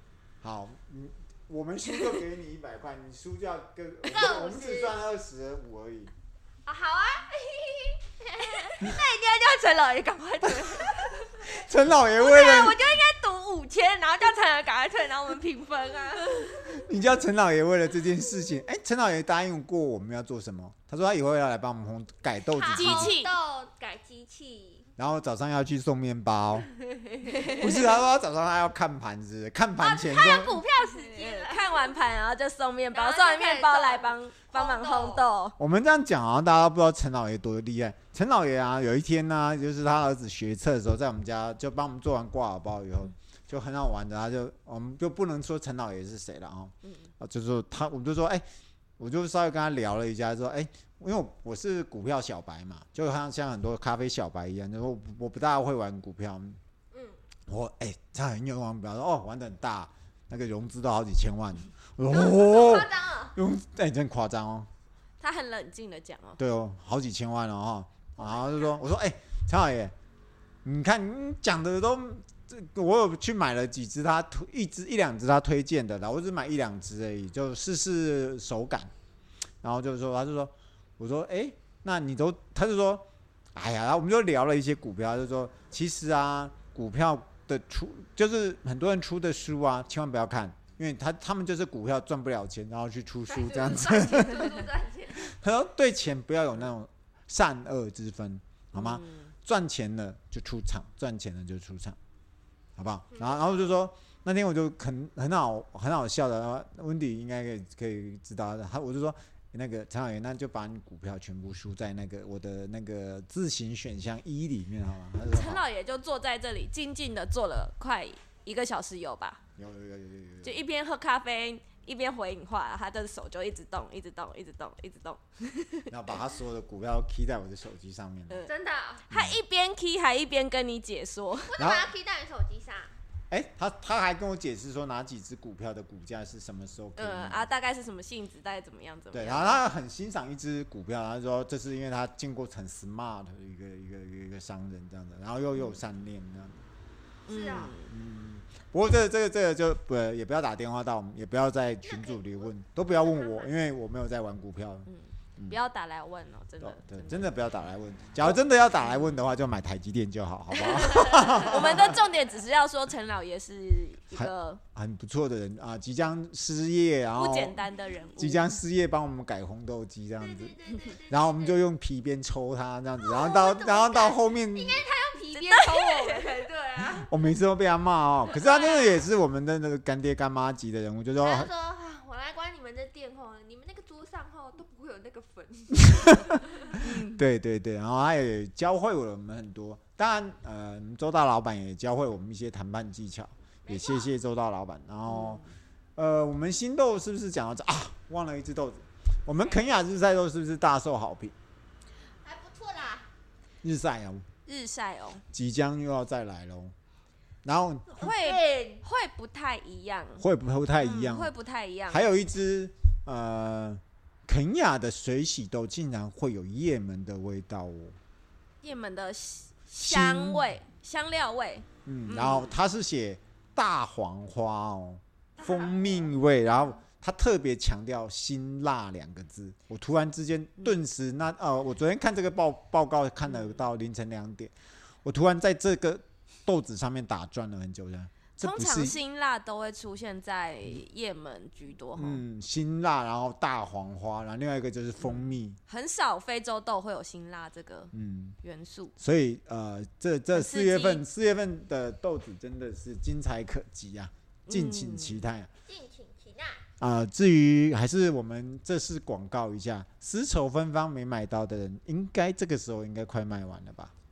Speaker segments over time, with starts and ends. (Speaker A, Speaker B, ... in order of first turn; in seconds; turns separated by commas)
Speaker A: 0.4-6.1, Speaker B: 4.0-5.0, Speaker B: 6.7-11.6, Speaker A: 11.4-12.8, Speaker B: 12.1-16.9, Speaker A: 16.7-23.1, Speaker B: 22.5-24.9, Speaker C: 22.7-23.3, Speaker A: 25.0-26.7, Speaker B: 26.9-27.7, Speaker C: 27.2-27.7, Speaker A: 27.5-30.6, Speaker B: 29.8-32.1, Speaker C: 30.8-35.6, Speaker B: 32.9-35.3, Speaker A: 35.6-48.4, Speaker A: 49.0-56.6, Speaker A: 57.5-64.7, Speaker B: 62.1-63.4, Speaker C: 65.2-66.4, Speaker A: 66.4-69.9, Speaker B: 68.2-68.8, Speaker A: 70.6-78.9, Speaker A: 79.6-94.5, Speaker B: 93.3-95.3, Speaker A: 95.1-102.0, Speaker C: 98.7-99.3, Speaker A: 102.8-115.6, Speaker B: 103.1-103.7, Speaker C: 115.3-119.4, Speaker A: 119.6-120.6, Speaker C: 120.4-125.9, Speaker A: 125.9-128.5, Speaker B: 128.5-129.1, Speaker A: 129.1-129.4, Speaker C: 129.1-131.6, Speaker B: 131.5-132.9, Speaker A: 131.6-131.9, Speaker A: 133.3-137.5, Speaker C: 137.0-139.6, Speaker A: 139.1-146.6, Speaker C: 147.3-147.9, Speaker B: 147.3-147.7, Speaker A: 147.5-155.6, Speaker B: 151.8-153.5, Speaker C: 154.9-157.2, Speaker A: 156.6-162.0, Speaker C: 160.6-164.6, Speaker A: 164.1-167.6, Speaker C: 167.2-168.5, Speaker A: 168.2-170.6, Speaker B: 170.2-171.6, Speaker A: 171.1-174.8, Speaker B: 173.0-177.1, Speaker C: 175.3-176.2, Speaker A: 176.8-181.5, Speaker B: 178.3-179.1, Speaker B: 181.2-186.8, Speaker A: 185.9-195.4, Speaker C: 186.8-187.2, Speaker B: 193.6-194.2, Speaker C: 195.1-195.5, Speaker A: 196.0-201.3, Speaker B: 199.4-199.7, Speaker B: 202.2-203.1, Speaker A: 203.6-204.3, Speaker C: 204.5-205.2, Speaker A: 205.3-206.8, Speaker A: 207.4-208.1, Speaker B: 207.9-208.8, Speaker C: 208.0-210.2, Speaker A: 210.2-211.3, Speaker C: 210.8-212.1, Speaker A: 211.9-218.0, Speaker C: 218.6-222.6, Speaker A: 219.8-220.5, Speaker A: 221.9-234.5, Speaker B: 225.4-226.1, Speaker C: 233.3-233.7, Speaker A: 235.0-239.0, Speaker C: 238.4-242.2, Speaker A: 241.9-245.6, Speaker C: 245.0-248.9, Speaker A: 247.9-248.4, Speaker A: 249.0-255.5, Speaker C: 250.3-251.0, Speaker C: 254.5-255.3, Speaker B: 255.7-256.6, Speaker A: 256.8-263.9